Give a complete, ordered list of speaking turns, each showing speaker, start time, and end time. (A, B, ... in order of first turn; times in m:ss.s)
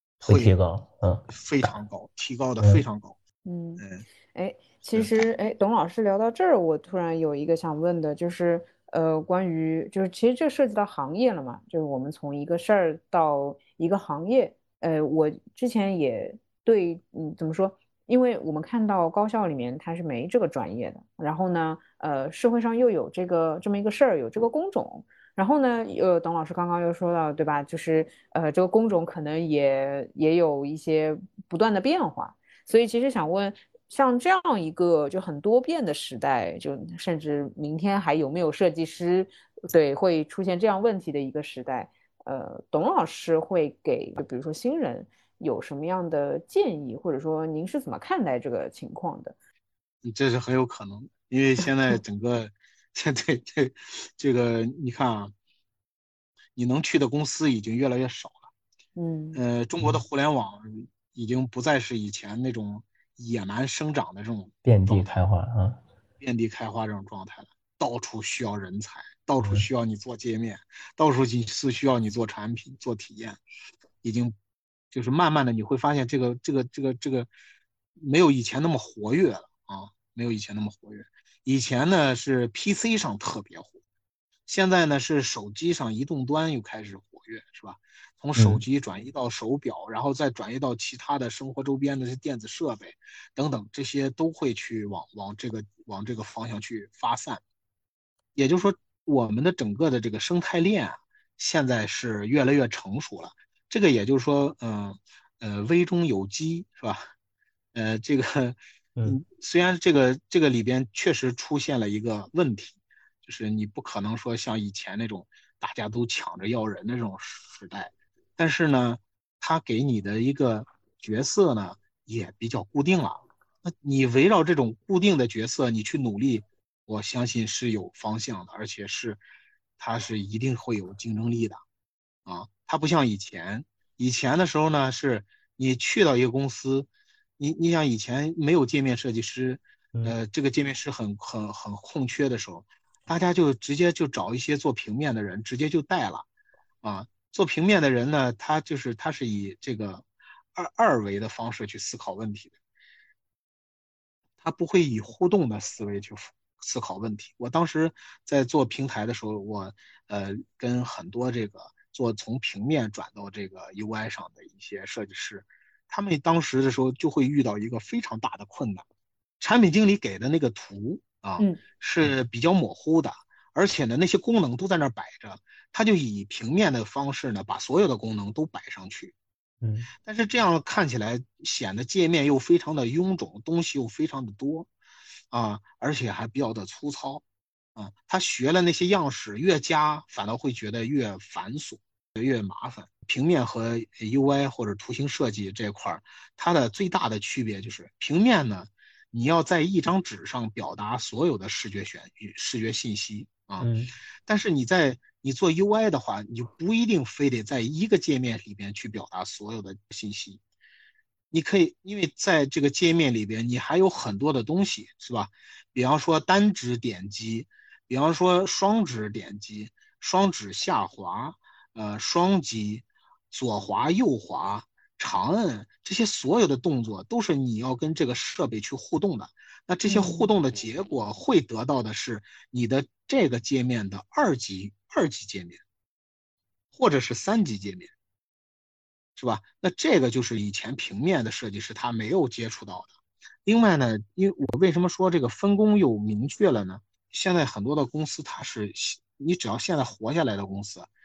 0:00.2-0:00.5 A
0:00.2-0:01.7 B
0:01.3-0:03.2 A
0:03.4-0:49.3 C
0:03.8-0:04.0 A
0:04.9-0:05.2 A
0:50.0-0:55.3 A
0:56.5-0:58.5 A
0:59.0-0:59.4 C
0:59.3-1:05.2 A
1:04.6-1:05.8 B
1:06.2-1:13.4 A
1:09.4-1:09.6 B
1:14.0-1:14.3 A
1:14.9-1:17.3 A
1:18.0-1:23.8 A
1:24.4-1:37.4 A
1:28.4-1:28.6 B
1:38.4-1:47.1 A
1:47.7-2:09.2 A
2:09.8-2:11.6 A
2:12.2-2:26.3 A
2:26.8-2:32.6 A
2:34.4-2:48.8 A
2:49.4-2:59.1 A
2:59.6-2:59.9 B
3:00.0-3:04.7 A
3:05.3-3:07.2 A
3:07.8-3:23.7 A
3:23.6-3:23.9 B
3:24.2-3:30.4 A
3:31.3-3:55.6 A
3:49.9-3:50.3 C
3:56.7-3:57.9 A
3:59.2-4:10.9 A